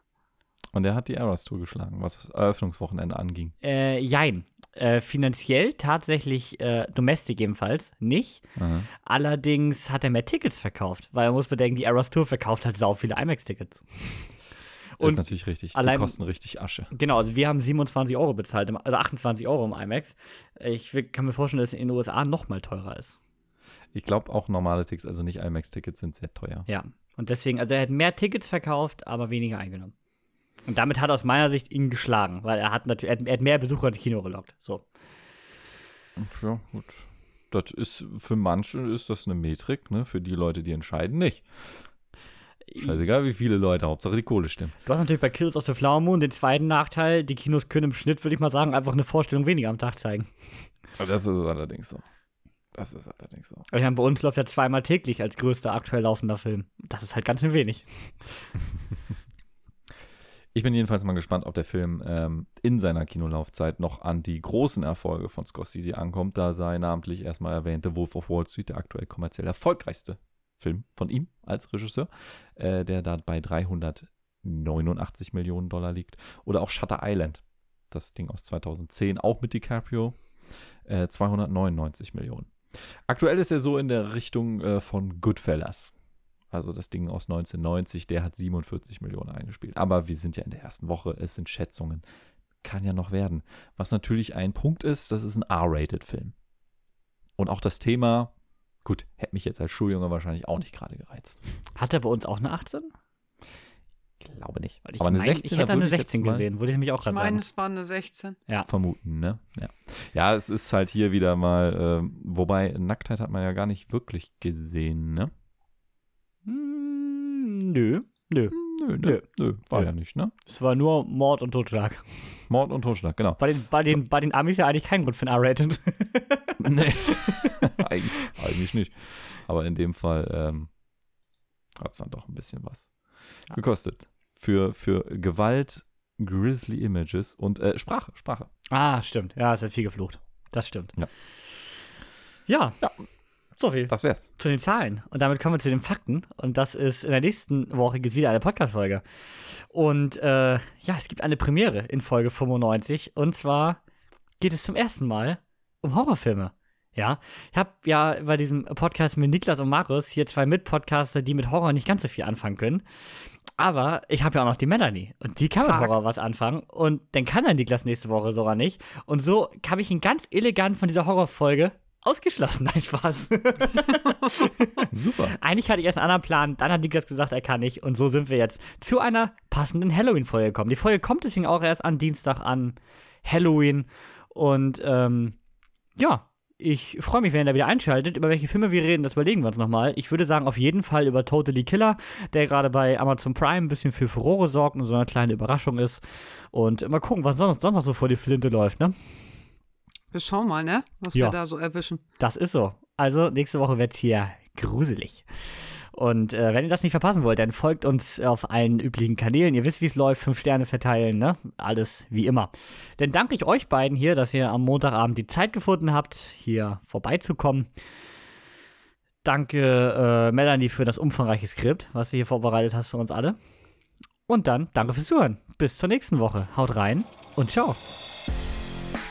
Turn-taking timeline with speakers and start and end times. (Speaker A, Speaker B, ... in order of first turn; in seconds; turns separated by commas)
Speaker A: 0.7-3.5, Speaker B: 3.6-14.4, Speaker A: 8.6-8.9, Speaker B: 15.0-16.2, Speaker A: 15.0-16.9, Speaker B: 16.9-23.2, Speaker A: 23.9-26.7, Speaker B: 26.7-29.9, Speaker B: 30.7-34.9, Speaker A: 36.2-41.9, Speaker B: 42.7-43.0, Speaker A: 42.8-44.8, Speaker B: 44.9-50.7, Speaker A: 51.0-52.0, Speaker A: 52.7-53.6, Speaker B: 53.7-58.5, Speaker A: 60.5-80.3, Speaker A: 80.8-85.9, Speaker A: 86.5-92.0, Speaker A: 92.6-96.3, Speaker A: 97.4-98.3, Speaker A: 98.8-101.5, Speaker B: 101.8-102.9, Speaker A: 104.2-106.5, Speaker B: 104.8-107.5, Speaker C: 107.0-108.4, Speaker A: 108.7-115.3, Speaker B: 116.5-119.9, Speaker A: 118.5-120.3, Speaker B: 120.5-122.0, Speaker A: 122.5-123.4, Speaker B: 123.4-127.6, Speaker A: 126.6-130.7, Speaker A: 131.8-138.5, Speaker B: 138.7-141.0, Speaker B: 142.5-142.8, Speaker B: 143.6-153.8, Speaker A: 143.9-144.3, Speaker B: 154.4-185.4, Speaker C: 165.6-165.9, Speaker A: 174.9-175.3, Speaker B: 186.0-198.9, Speaker C: 200.1-202.0, Speaker B: 202.2-217.7, Speaker B: 219.2-223.4, Speaker B: 224.3-227.8